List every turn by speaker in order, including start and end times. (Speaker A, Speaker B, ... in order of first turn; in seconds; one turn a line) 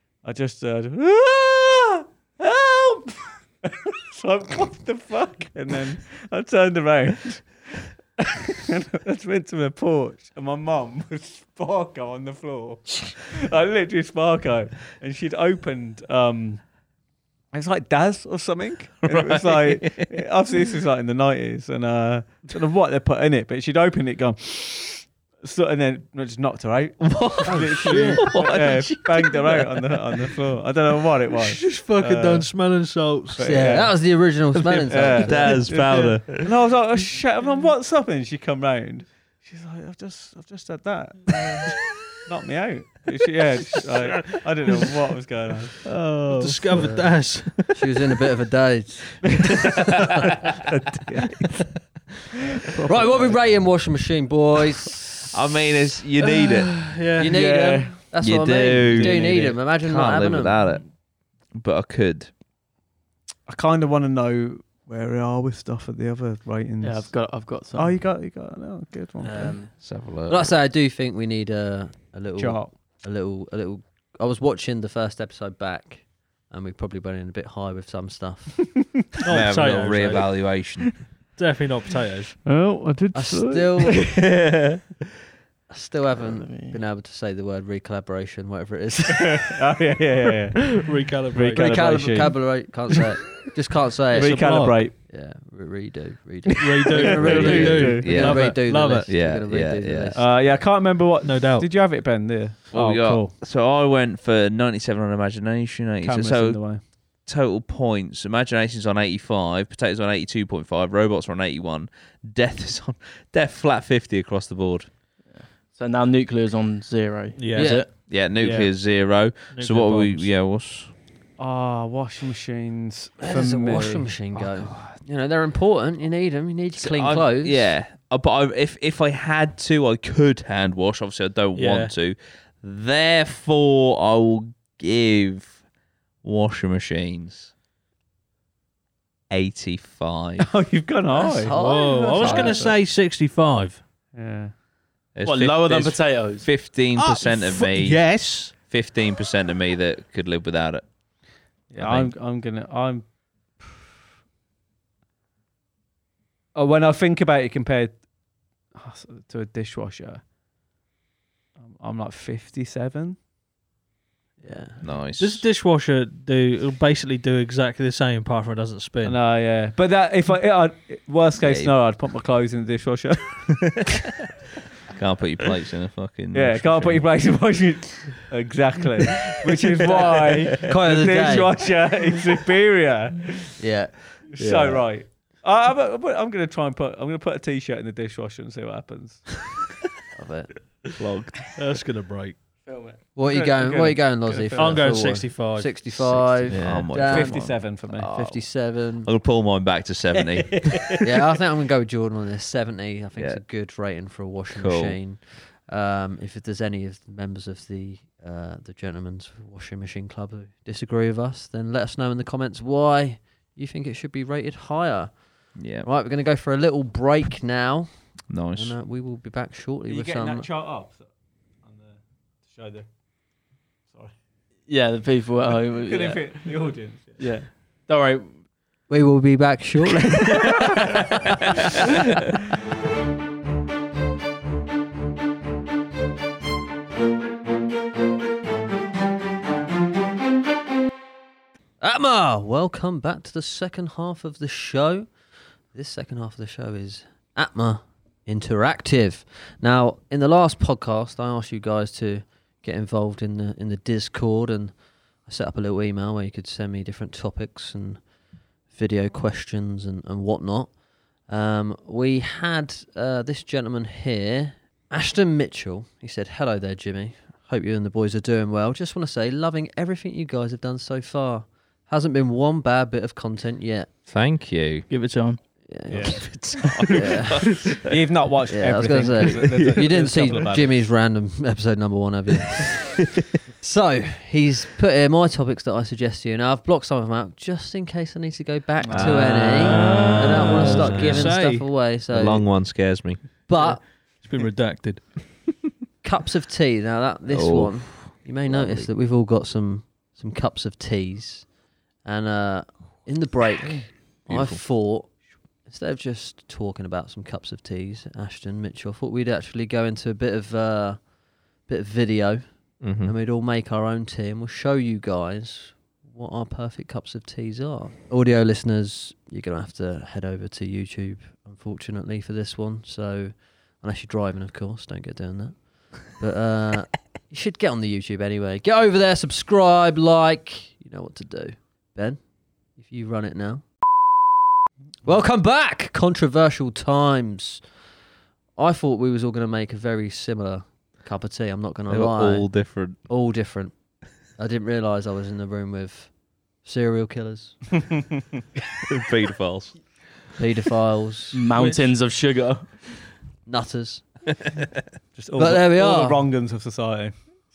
Speaker A: 0.2-16.6
Speaker A: 17.5-32.5
Speaker B: 19.0-20.1
Speaker B: 27.0-30.2
Speaker C: 27.5-28.2
Speaker D: 27.8-28.2
Speaker D: 31.4-33.6
Speaker A: 33.3-33.9
Speaker C: 33.4-35.5
Speaker A: 34.9-45.7
Speaker B: 35.2-36.5
Speaker D: 46.3-47.9
Speaker C: 46.7-49.3
Speaker A: 49.4-49.7
Speaker A: 50.6-51.5
Speaker A: 52.7-53.4
Speaker C: 52.8-55.5
Speaker B: 55.3-56.8
Speaker D: 56.3-57.3
Speaker C: 57.2-60.5
Speaker A: 57.2-58.0
Speaker B: 58.2-60.9
Speaker D: 58.9-59.5
Speaker A: 59.0-59.5
Speaker B: 61.5-62.3
Speaker A: 63.5-69.6
Speaker E: 66.8-68.0
Speaker E: 69.2-69.7
Speaker B: 69.8-70.5
Speaker C: 70.3-78.6
Speaker A: 72.4-72.7
Speaker D: 79.2-80.6
Speaker B: 79.3-81.0
Speaker D: 81.3-82.3
Speaker A: 82.4-84.2
Speaker C: 83.1-84.0
Speaker B: 84.1-84.8
Speaker C: 85.7-89.6
Speaker E: 86.2-86.8
Speaker A: 89.2-90.8
Speaker D: 90.8-92.2
Speaker A: 91.3-92.5
Speaker C: 91.5-100.3
Speaker D: 94.1-94.8
Speaker A: 94.1-94.9
Speaker D: 96.6-99.1
Speaker A: 96.9-98.2
Speaker B: 97.2-98.5
Speaker B: 99.1-100.2
Speaker A: 100.1-103.3
Speaker D: 101.2-101.7
Speaker B: 102.7-114.9
Speaker A: 106.0-106.8
Speaker E: 115.3-117.9
Speaker D: 117.3-117.8
Speaker C: 117.5-117.8
Speaker B: 118.0-120.9
Speaker A: 118.4-118.7
Speaker D: 119.5-120.3
Speaker A: 121.4-124.1
Speaker C: 123.2-127.7
Speaker B: 124.3-125.0
Speaker B: 126.8-135.5
Speaker D: 131.5-131.9
Speaker B: 136.2-137.5
Speaker B: 139.3-140.5
Speaker A: 140.4-141.5
Speaker C: 141.1-142.7
Speaker D: 141.5-143.8
Speaker A: 142.2-142.8
Speaker A: 144.1-144.5
Speaker B: 145.2-150.8
Speaker E: 145.2-146.5
Speaker D: 146.9-148.5
Speaker A: 151.7-153.0
Speaker B: 151.8-152.1
Speaker A: 156.5-158.0
Speaker A: 158.7-160.2
Speaker A: 161.6-163.2
Speaker C: 164.4-164.8
Speaker B: 164.8-165.4
Speaker D: 165.2-169.2
Speaker A: 169.0-173.8
Speaker B: 171.4-171.7
Speaker B: 174.9-177.1
Speaker A: 176.3-183.5
Speaker C: 180.6-181.5
Speaker C: 183.6-183.9
Speaker A: 184.3-189.3
Speaker B: 184.4-184.8
Speaker C: 190.1-190.5
Speaker B: 191.0-191.5
Speaker D: 191.6-192.4
Speaker E: 192.7-193.0
Speaker C: 193.2-199.1
Speaker A: 193.3-195.0
Speaker D: 194.6-196.9
Speaker B: 196.5-198.4
Speaker A: 196.9-198.1
Speaker B: 199.0-200.9
Speaker C: 201.0-217.9
Speaker B: 204.5-205.0
Speaker B: 215.6-215.9
Speaker B: 218.3-218.7
Speaker C: 218.5-220.5
Speaker A: 219.9-221.1
Speaker A: 221.6-222.9
Speaker A: 223.9-224.1
Speaker E: 224.7-228.3
Speaker A: 225.7-227.3
Speaker C: 228.9-230.6
Speaker C: 241.8-245.1
Speaker C: 245.7-254.7
Speaker C: 255.2-258.0
Speaker C: 258.7-260.7
Speaker C: 261.3-273.9
Speaker B: 274.1-274.9
Speaker E: 274.9-275.4
Speaker C: 275.7-276.3
Speaker A: 275.9-276.2
Speaker B: 276.0-277.9
Speaker C: 276.9-277.5
Speaker A: 277.9-280.8
Speaker C: 278.5-283.0
Speaker B: 279.2-279.9
Speaker C: 283.6-292.5
Speaker A: 288.8-290.0
Speaker B: 289.0-289.3
Speaker D: 289.1-291.6
Speaker B: 290.2-291.3
Speaker B: 292.1-293.2
Speaker C: 293.5-293.8
Speaker D: 293.6-295.1
Speaker C: 296.0-301.5
Speaker B: 297.3-298.9
Speaker C: 302.0-305.1
Speaker B: 304.3-304.6
Speaker C: 305.6-311.0
Speaker C: 311.7-312.4
Speaker B: 312.8-313.1
Speaker C: 313.0-325.6
Speaker C: 326.1-332.2
Speaker C: 332.8-333.6
Speaker C: 335.0-337.6
Speaker C: 338.6-342.5
Speaker B: 341.9-343.0
Speaker C: 343.1-343.7
Speaker C: 344.4-346.1
Speaker C: 346.6-347.6
Speaker B: 348.8-349.8
Speaker C: 350.4-351.4
Speaker E: 351.3-352.9
Speaker C: 353.4-354.0
Speaker A: 355.1-357.1
Speaker C: 355.4-356.3